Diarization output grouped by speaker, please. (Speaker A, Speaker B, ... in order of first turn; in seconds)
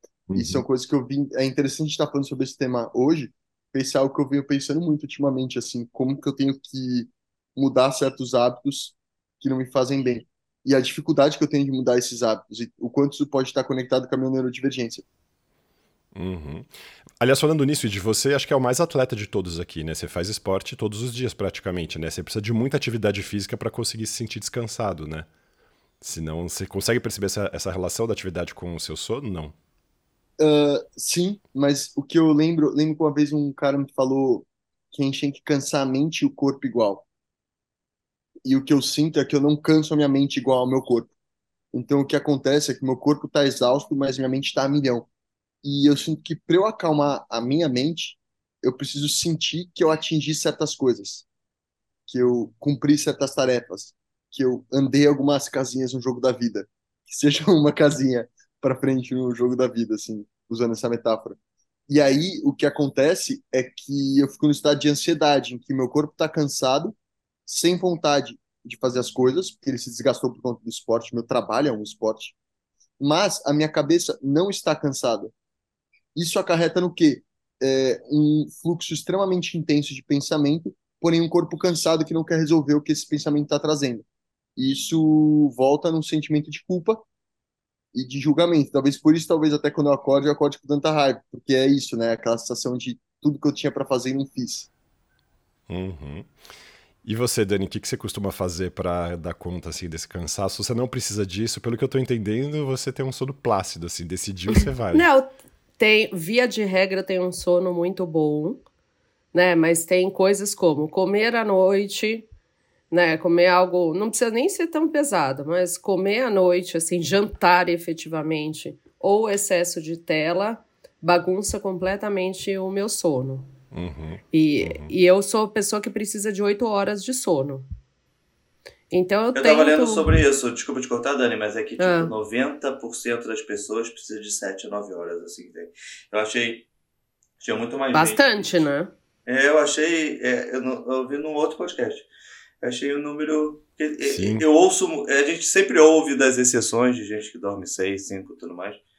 Speaker A: 0.3-0.6, 16.1-16.7, 17.2-25.3, 26.0-29.5, 95.7-96.3, 97.0-105.0, 123.7-124.9, 144.0-144.4
Speaker B: 0.3-15.0, 30.4-37.0, 38.4-41.1, 41.7-45.1, 45.6-51.2, 52.1-61.4, 61.9-67.0, 67.5-72.3, 73.0-75.3, 76.1-84.0, 84.5-87.0, 87.9-94.7
Speaker C: 104.9-108.6, 109.3-112.2, 112.9-123.5, 124.3-127.6, 128.9-130.1, 131.8-132.1, 137.9-138.9
Speaker D: 129.3-136.7, 137.4-138.7, 139.2-142.1, 142.6-148.8